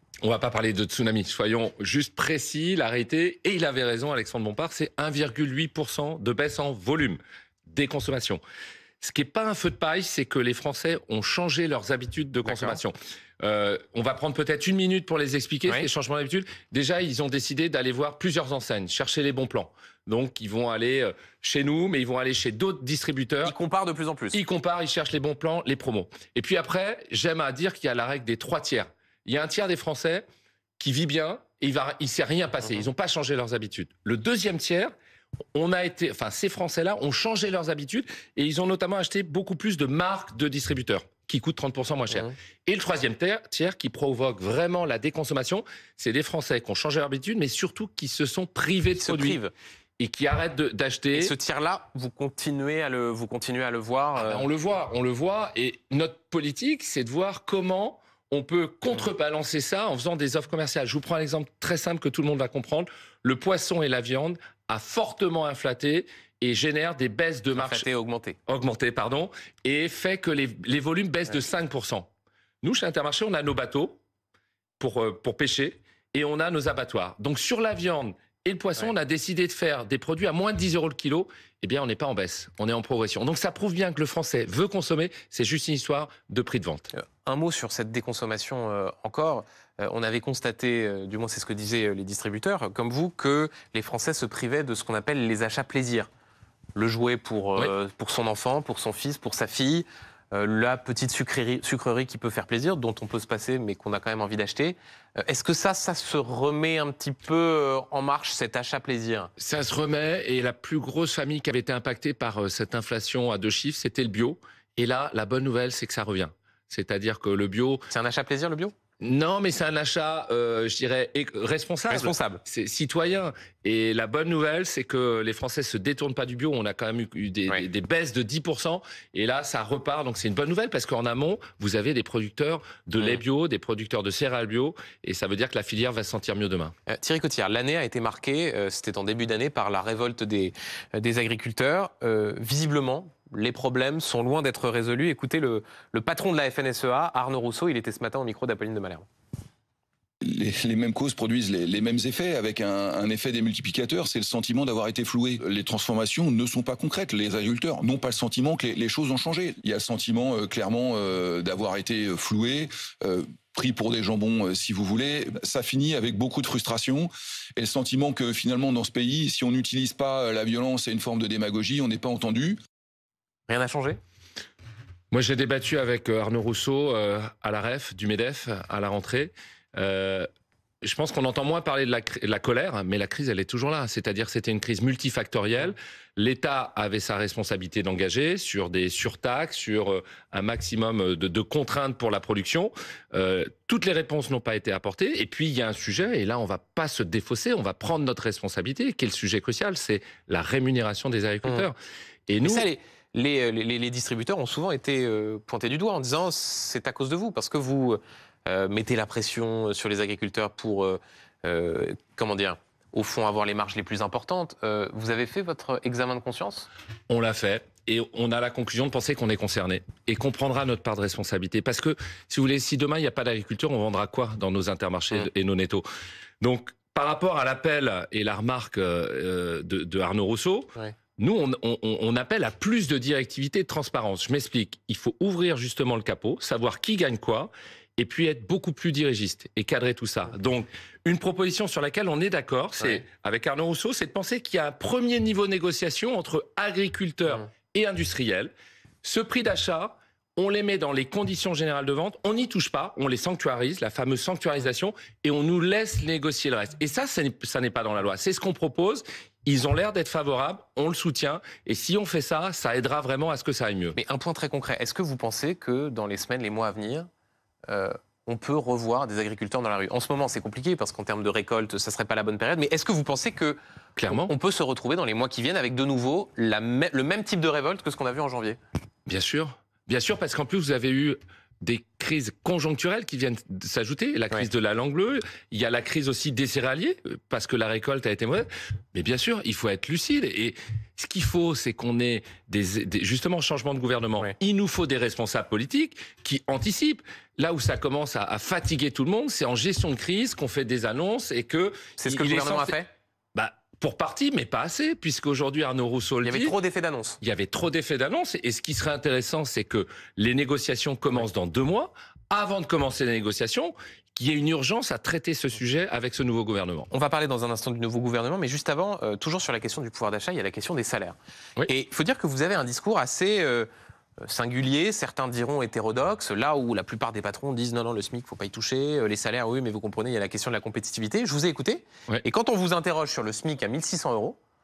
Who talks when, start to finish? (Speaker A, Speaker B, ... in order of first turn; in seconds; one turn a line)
Speaker A: 0.2-8.4
Speaker A: 9.0-23.5
Speaker B: 12.4-12.8
Speaker B: 23.4-24.4
Speaker A: 24.3-30.2
Speaker A: 30.8-34.9
Speaker A: 35.5-49.4
Speaker B: 49.0-49.5
Speaker A: 50.0-51.3
Speaker B: 51.1-54.5
Speaker A: 54.1-67.8
Speaker B: 67.5-68.4
Speaker A: 68.5-72.1
Speaker A: 72.6-74.0
Speaker A: 74.8-86.9
Speaker B: 86.9-96.1
Speaker B: 96.7-109.3
Speaker A: 109.4-117.8
Speaker B: 117.9-118.7
Speaker A: 119.0-136.7
Speaker B: 121.9-122.4
Speaker B: 136.9-149.1
Speaker C: 150.2-172.6
Speaker B: 173.5-174.0
Speaker A: 175.1-180.3
Speaker A: 180.8-201.7
Speaker A: 202.3-202.7
Speaker B: 202.4-216.7
Speaker A: 217.1-225.8
Speaker A: 226.4-248.5
Speaker A: 249.0-264.0
Speaker B: 263.9-267.1
Speaker B: 267.7-278.6
Speaker A: 274.0-274.3
Speaker A: 279.1-302.8
Speaker B: 302.0-302.9
Speaker A: 303.3-306.5
Speaker B: 306.2-307.2
Speaker A: 307.2-316.9
Speaker B: 316.9-323.7
Speaker B: 324.2-334.4